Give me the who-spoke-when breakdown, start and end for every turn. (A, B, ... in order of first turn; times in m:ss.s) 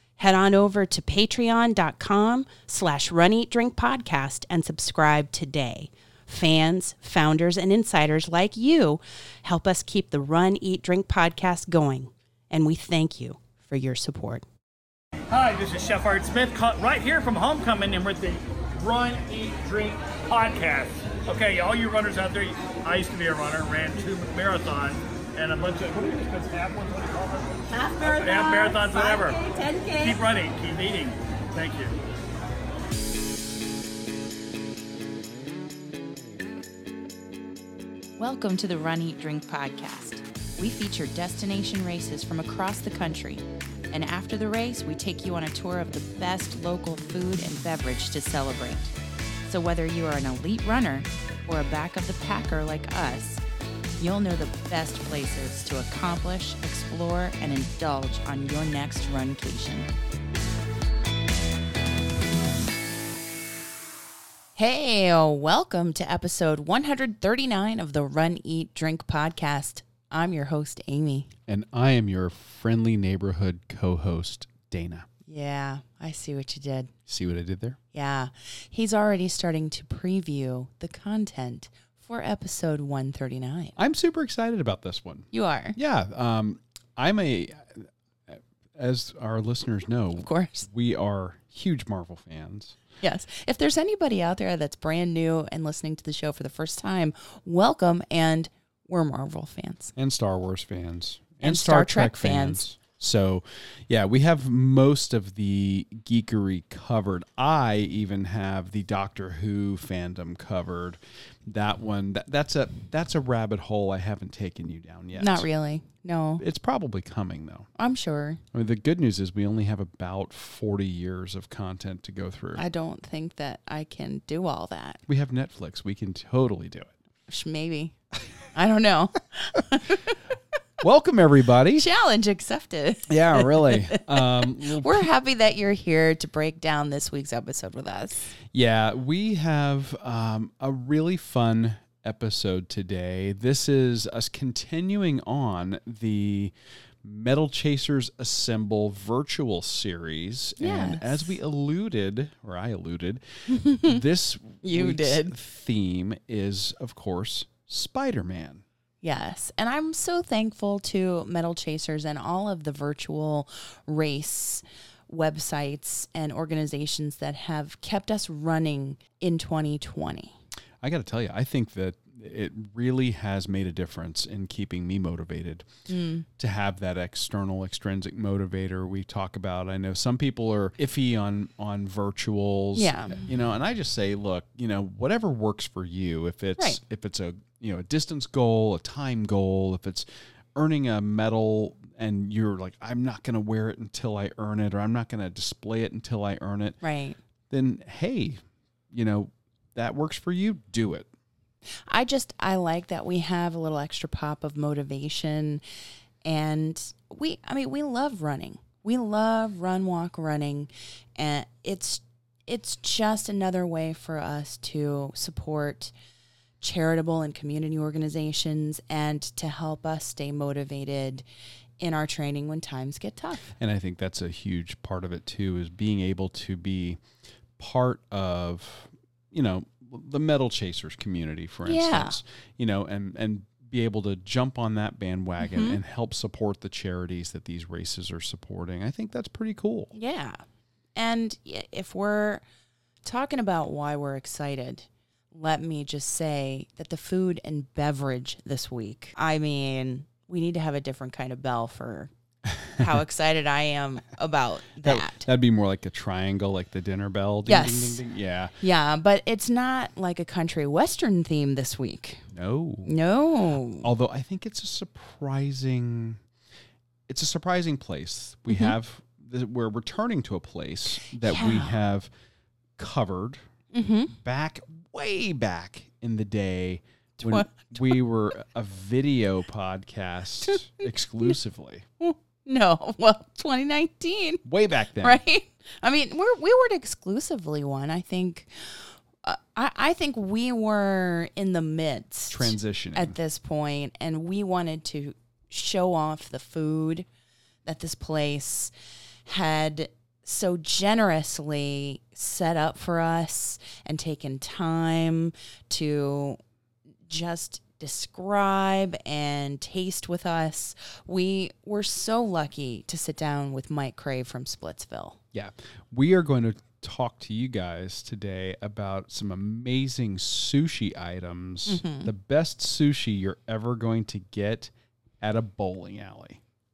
0:00.2-0:14.4 A
0:15.3-0:29.4 B
0:27.7-0:30.2 A
0:30.0-0:32.0 B
0:38.2-0:49.0 A
0:49.5-0:53.4 A
0:54.0-0:59.9 A
1:04.6-1:11.3 A
1:11.5-1:15.1 C
1:15.3-1:16.9 A
1:17.1-1:17.8 C
1:17.9-1:23.8 A
1:23.8-1:32.8 C
1:25.3-1:25.8 A
1:30.2-1:30.7 A
1:33.0-1:39.9 A
1:40.0-1:55.5 C
1:41.4-1:42.6 A
1:55.1-1:56.4 A
1:56.4-1:57.7 C
1:57.8-1:58.4 A
1:58.5-2:02.6 C
2:02.6-2:05.0 A
2:05.1-2:06.9 C
2:07.3-2:08.0 A
2:08.5-2:10.4 A
2:10.8-2:11.9 C
2:11.8-2:18.4 A
2:13.1-2:15.1 C
2:18.5-2:38.6 C
2:30.6-2:31.2 A
2:33.5-2:34.0 A
2:34.6-2:35.4 A
2:39.0-2:50.4 A
2:50.8-2:55.7 C
2:55.9-2:56.3 A
2:56.4-3:16.8 C
3:02.8-3:03.2 A
3:16.8-3:17.2 A
3:17.5-3:21.1 C
3:21.9-3:25.6 A
3:26.2-3:35.9 A
3:36.6-3:41.2 A
3:41.8-3:43.5 A
3:43.6-3:47.0 C
3:47.6-3:59.9 C
3:51.6-3:52.2 A
3:55.4-3:55.8 A
3:59.9-4:00.4 A
4:01.0-4:02.4 A
4:03.0-4:12.1 A
4:12.6-4:12.9 C
4:12.7-4:15.3 A
4:14.8-4:18.6 C
4:17.5-4:18.0 A
4:18.6-4:22.3 A
4:22.3-4:22.9 C
4:22.8-4:23.9 A
4:23.8-4:26.2 C
4:27.1-4:32.1 C
4:28.5-4:28.8 A
4:31.2-4:31.7 A
4:32.8-4:33.4 C
4:33.7-4:34.2 A
4:34.2-4:41.8 C
4:37.2-4:38.0 A
4:40.4-4:40.9 A
4:42.0-4:44.4 A
4:44.4-4:45.2 C
4:45.0-4:57.1 A
4:52.3-4:53.2 C
4:57.6-4:58.7 A
4:59.3-5:06.4 A
5:07.1-5:15.2 A
5:15.3-5:26.4 C
5:21.7-5:22.1 A